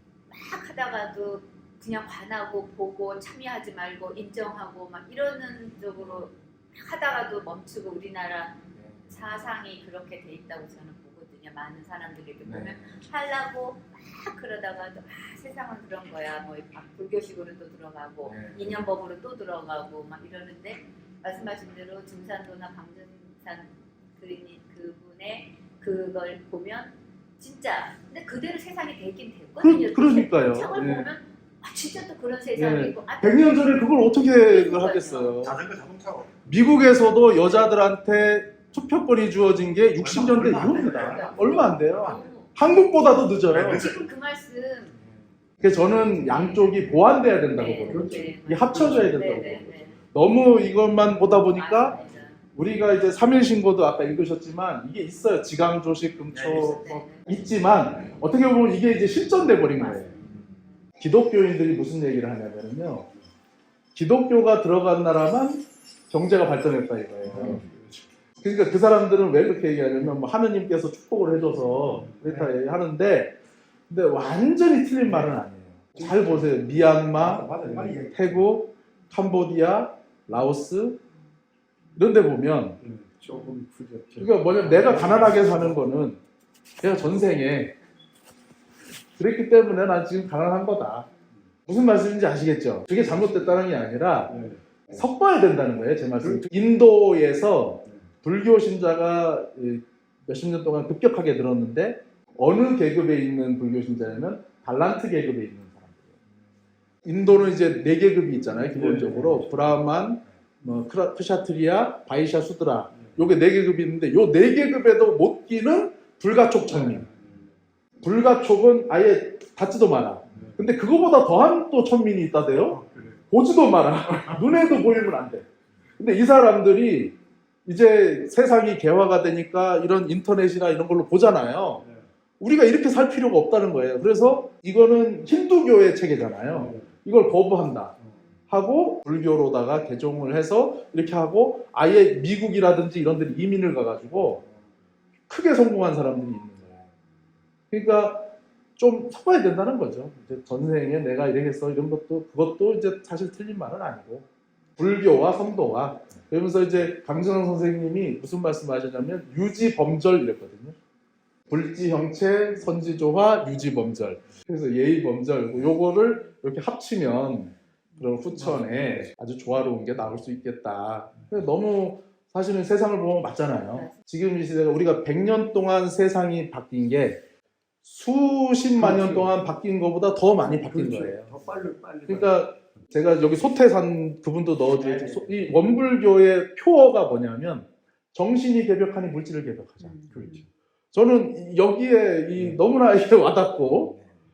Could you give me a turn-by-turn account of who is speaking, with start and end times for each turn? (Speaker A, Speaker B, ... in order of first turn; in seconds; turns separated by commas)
Speaker A: 0.3-35.5, Speaker B: 6.0-6.3, Speaker B: 8.8-9.0, Speaker B: 12.4-13.0, Speaker B: 18.2-18.8, Speaker B: 29.6-31.1, Speaker B: 32.6-35.6, Speaker C: 35.5-36.3, Speaker B: 36.5-43.9, Speaker C: 40.0-41.4, Speaker A: 40.5-42.5, Speaker C: 43.5-43.9, Speaker A: 43.6-44.9, Speaker B: 45.6-52.0, Speaker A: 46.2-46.7, Speaker A: 47.5-50.0, Speaker C: 47.9-48.2, Speaker C: 48.8-49.1, Speaker A: 51.5-52.4, Speaker B: 52.5-60.2, Speaker A: 56.5-57.3, Speaker B: 61.0-63.1, Speaker B: 63.9-67.6, Speaker C: 67.4-67.8, Speaker B: 68.4-73.4, Speaker B: 73.9-81.0, Speaker C: 77.3-78.3, Speaker B: 82.0-82.8, Speaker C: 82.8-85.7, Speaker B: 84.2-86.2, Speaker B: 86.8-87.8, Speaker B: 89.2-91.1, Speaker B: 91.7-106.1, Speaker B: 107.0-117.1, Speaker C: 108.8-109.3, Speaker B: 118.0-125.5, Speaker C: 122.8-123.2, Speaker B: 126.0-131.8, Speaker B: 132.4-137.9, Speaker B: 138.5-144.4, Speaker B: 145.3-146.8, Speaker B: 147.7-160.8, Speaker B: 161.5-177.2, Speaker C: 168.5-169.1, Speaker B: 177.8-181.4, Speaker C: 178.8-179.3, Speaker C: 180.7-182.3, Speaker B: 182.1-190.3, Speaker C: 184.9-185.3, Speaker A: 189.9-190.4, Speaker C: 190.2-190.4, Speaker B: 190.9-194.0